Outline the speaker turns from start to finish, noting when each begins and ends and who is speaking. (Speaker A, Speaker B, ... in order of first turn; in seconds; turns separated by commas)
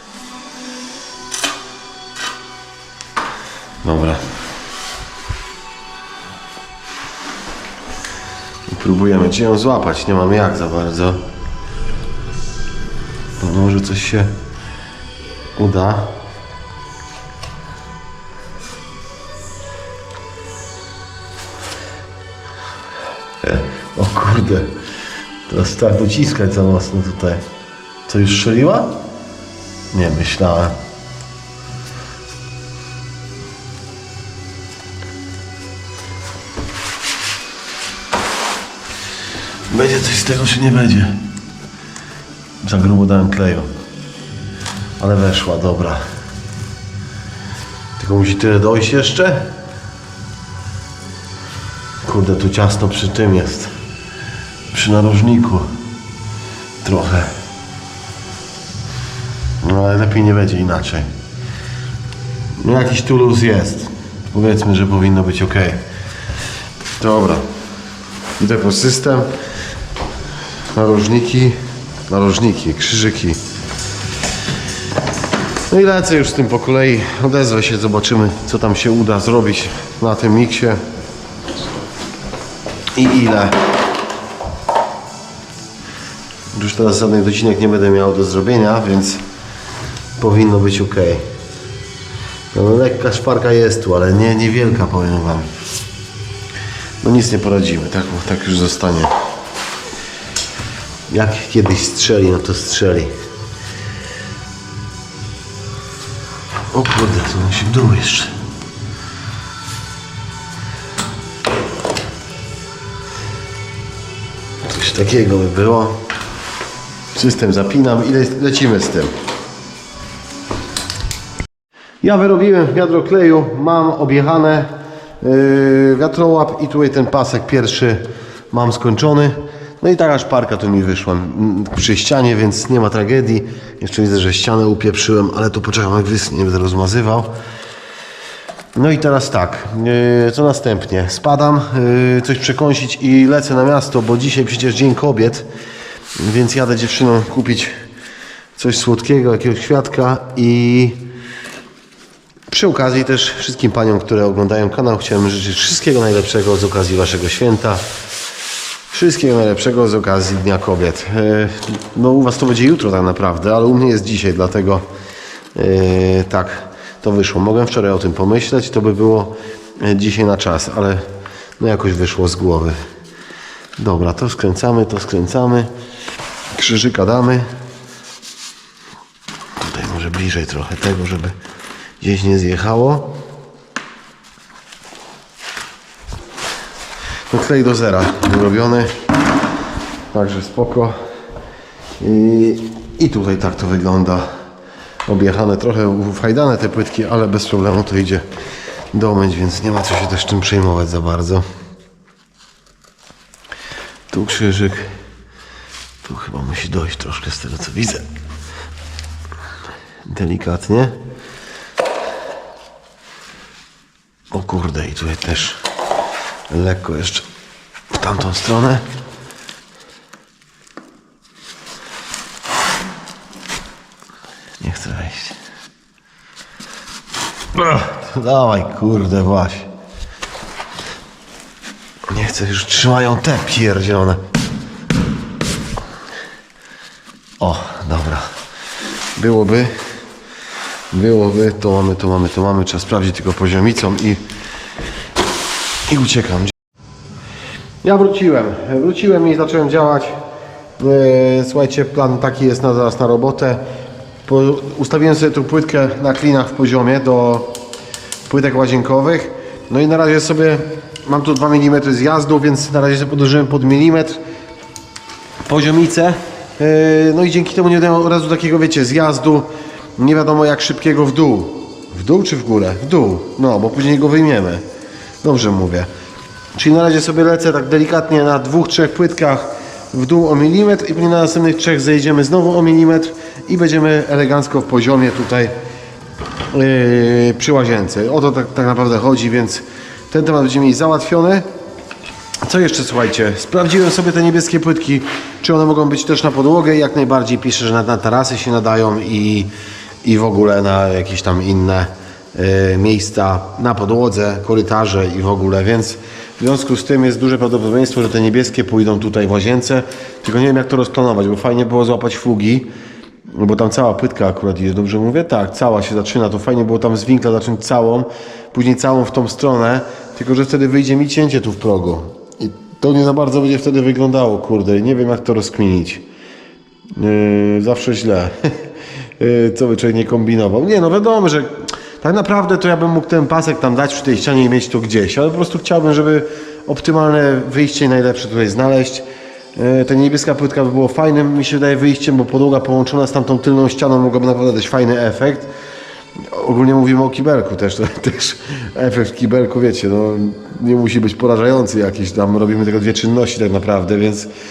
Speaker A: 3.8-4.2, Speaker A: 8.7-11.2, Speaker A: 13.4-14.3, Speaker A: 15.6-16.1, Speaker A: 23.4-24.7, Speaker A: 25.5-27.4, Speaker A: 28.1-29.0, Speaker A: 29.9-30.8, Speaker A: 39.7-41.2, Speaker A: 42.6-43.7, Speaker A: 45.0-46.0, Speaker A: 48.0-49.5, Speaker A: 52.0-53.7, Speaker A: 54.7-55.7, Speaker A: 56.8-57.3, Speaker A: 59.6-61.1, Speaker A: 62.6-65.8, Speaker A: 67.0-67.4, Speaker A: 68.4-69.3, Speaker A: 70.7-71.6, Speaker A: 72.1-73.4, Speaker A: 75.7-80.8, Speaker A: 82.9-83.6, Speaker A: 86.5-89.2, Speaker A: 90.2-91.2, Speaker A: 92.5-95.5, Speaker A: 97.0-99.1, Speaker A: 101.1-103.1, Speaker A: 106.7-108.3, Speaker A: 114.6-116.0, Speaker A: 117.1-119.1, Speaker A: 122.0-137.3, Speaker A: 138.7-145.5, Speaker A: 146.2-147.7, Speaker A: 148.6-151.0, Speaker A: 152.5-157.8, Speaker A: 158.9-164.8, Speaker A: 165.5-171.0, Speaker A: 171.6-172.8, Speaker A: 173.8-175.7, Speaker A: 176.5-177.5, Speaker A: 179.6-181.3, Speaker A: 182.0-183.1, Speaker A: 187.3-188.9, Speaker A: 190.1-190.9, Speaker A: 192.0-194.3, Speaker A: 195.1-198.2, Speaker A: 198.9-201.4, Speaker A: 204.1-204.9, Speaker A: 206.0-208.0, Speaker A: 210.0-210.9, Speaker A: 214.3-215.6, Speaker A: 216.5-217.2, Speaker A: 217.9-218.8, Speaker A: 224.6-225.4, Speaker A: 227.5-229.7, Speaker A: 232.1-234.2, Speaker A: 237.4-238.3, Speaker A: 239.2-239.8, Speaker A: 240.9-244.2, Speaker A: 245.9-246.5, Speaker A: 247.8-250.1, Speaker A: 250.8-253.6, Speaker A: 254.2-257.5, Speaker A: 258.3-264.2, Speaker A: 265.4-274.6, Speaker A: 275.2-275.9, Speaker A: 276.5-285.5, Speaker A: 286.5-291.4, Speaker A: 292.4-299.5, Speaker A: 300.0-312.7, Speaker A: 313.3-326.0, Speaker A: 326.9-328.5, Speaker A: 329.2-339.0, Speaker A: 339.6-345.5, Speaker A: 346.3-354.3